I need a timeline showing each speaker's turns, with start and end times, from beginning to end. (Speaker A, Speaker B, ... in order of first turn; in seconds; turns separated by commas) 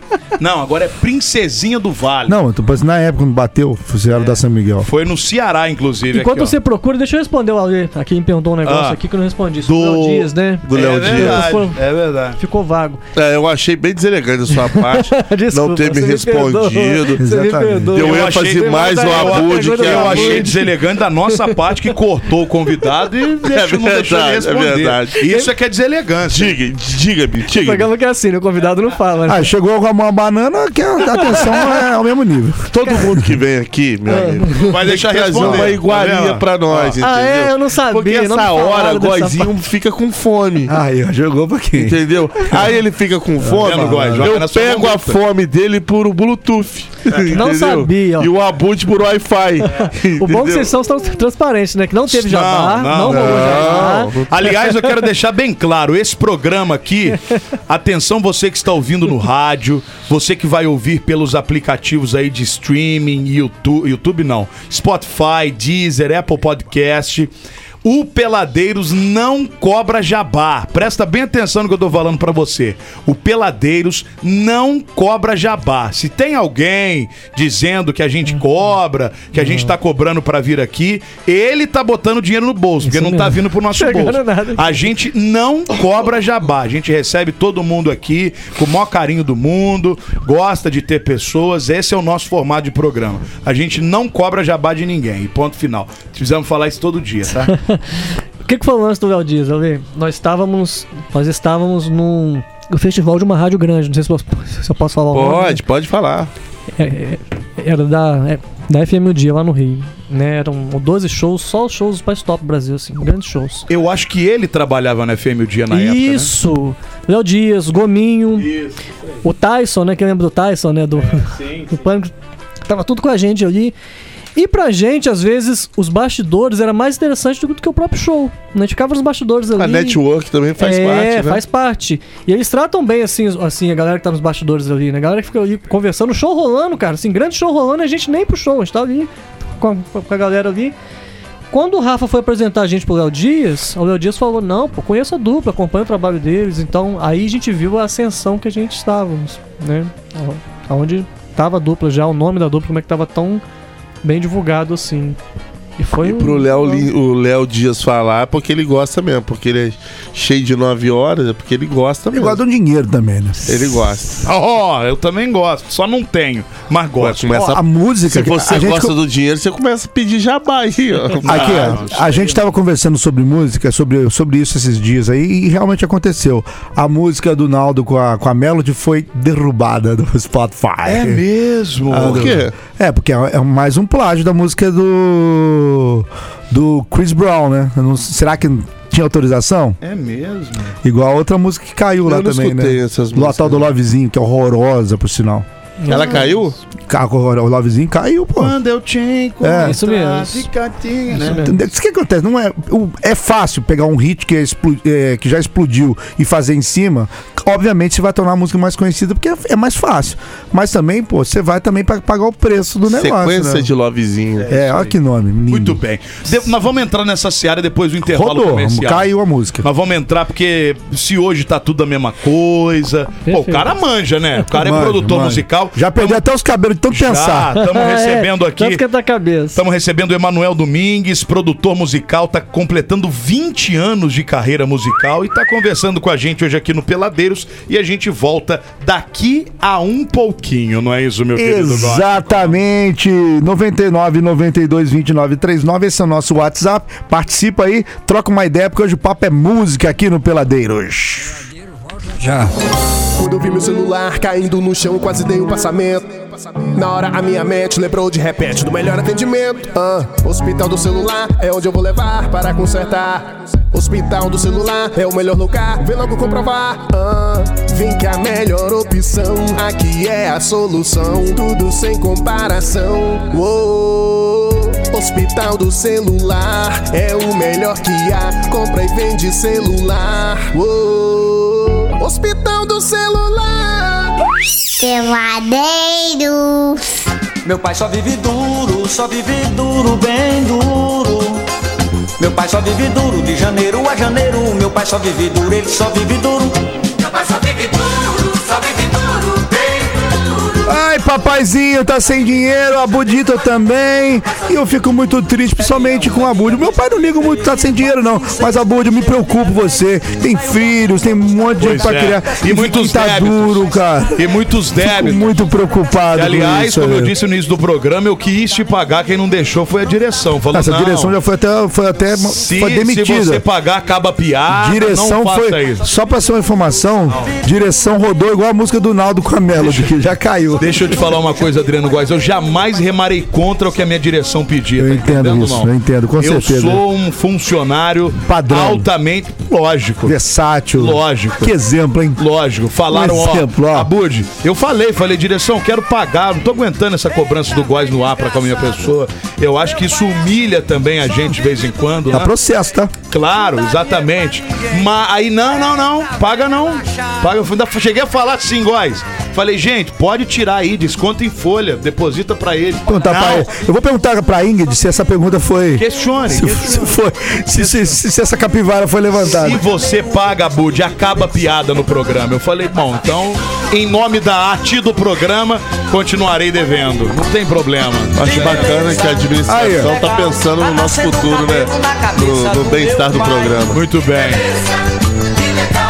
Speaker A: 0.4-2.4, Speaker B: 2.3-4.9, Speaker A: 4.1-6.6, Speaker C: 6.1-11.8, Speaker A: 8.7-9.0, Speaker A: 9.7-12.4, Speaker D: 10.7-11.5, Speaker C: 12.4-13.0, Speaker D: 13.2-17.2, Speaker C: 14.5-20.7, Speaker B: 17.2-18.0, Speaker D: 17.9-20.5, Speaker A: 18.0-26.6, Speaker C: 21.3-21.9, Speaker D: 23.5-25.2, Speaker D: 26.3-27.9, Speaker C: 27.5-29.5, Speaker B: 29.3-33.3, Speaker C: 31.1-31.8, Speaker D: 32.7-40.8, Speaker C: 34.1-34.7, Speaker A: 34.6-37.0, Speaker B: 35.4-35.7, Speaker C: 37.0-39.5, Speaker B: 40.7-42.6, Speaker D: 41.8-50.7, Speaker B: 43.4-44.4, Speaker A: 43.6-45.2, Speaker C: 47.3-48.3, Speaker C: 49.7-54.9, Speaker A: 52.1-67.3, Speaker D: 53.0-54.3, Speaker A: 67.8-97.5, Speaker C: 79.3-79.8, Speaker C: 82.8-84.9, Speaker C: 97.5-105.6, Speaker D: 105.1-106.3, Speaker C: 106.8-113.7, Speaker A: 113.7-116.3, Speaker C: 115.7-118.5, Speaker A: 118.4-118.7, Speaker C: 119.2-122.1, Speaker C: 122.7-123.7, Speaker C: 124.4-130.0, Speaker D: 129.6-131.4, Speaker C: 130.6-140.7, Speaker C: 141.5-153.4, Speaker C: 154.0-155.2, Speaker C: 155.8-156.9, Speaker D: 156.0-162.4, Speaker B: 162.1-163.8, Speaker D: 163.5-164.2, Speaker A: 164.2-167.5, Speaker D: 167.0-171.7, Speaker B: 167.3-168.9, Speaker A: 171.2-172.4, Speaker B: 171.2-181.2, Speaker A: 180.9-182.4, Speaker B: 181.9-189.8, Speaker D: 181.9-182.5, Speaker A: 189.8-190.8, Speaker B: 190.8-195.5, Speaker D: 192.1-193.7, Speaker C: 195.8-196.3, Speaker A: 195.9-196.4, Speaker D: 195.9-196.6, Speaker B: 196.9-198.6, Speaker A: 198.4-201.4, Speaker B: 199.4-199.8, Speaker C: 199.6-200.5, Speaker C: 201.1-201.6, Speaker B: 201.3-213.7, Speaker D: 212.9-214.5, Speaker A: 214.4-214.9, Speaker B: 214.5-215.8, Speaker A: 215.5-219.1, Speaker B: 218.1-219.7, Speaker A: 219.6-226.2, Speaker C: 223.2-223.7, Speaker B: 224.5-227.6, Speaker A: 226.9-228.8, Speaker C: 227.6-229.6, Speaker A: 229.6-242.6, Speaker B: 241.4-251.4, Speaker B: 252.2-252.5, Speaker E: 253.2-284.2, Speaker F: 284.8-286.9, Speaker G: 287.4-291.4, Speaker G: 292.2-300.2, Speaker B: 300.6-314.2, Speaker A: 311.6-315.4, Speaker B: 314.8-317.1, Speaker A: 316.1-321.2, Speaker B: 320.5-323.4, Speaker A: 322.2-325.9, Speaker B: 324.5-331.0, Speaker A: 329.6-329.9, Speaker A: 330.6-340.2, Speaker B: 334.8-336.8, Speaker B: 338.2-338.9, Speaker B: 340.0-342.2, Speaker A: 340.8-341.6, Speaker A: 342.2-352.3, Speaker B: 342.9-343.9, Speaker B: 352.1-352.9, Speaker A: 353.1-363.5, Speaker B: 362.9-369.6, Speaker A: 365.8-366.9, Speaker A: 367.5-368.0, Speaker A: 369.1-378.8, Speaker D: 378.2-383.8, Speaker G: 378.2-383.8, Speaker B: 379.5-379.9, Speaker A: 383.7-384.5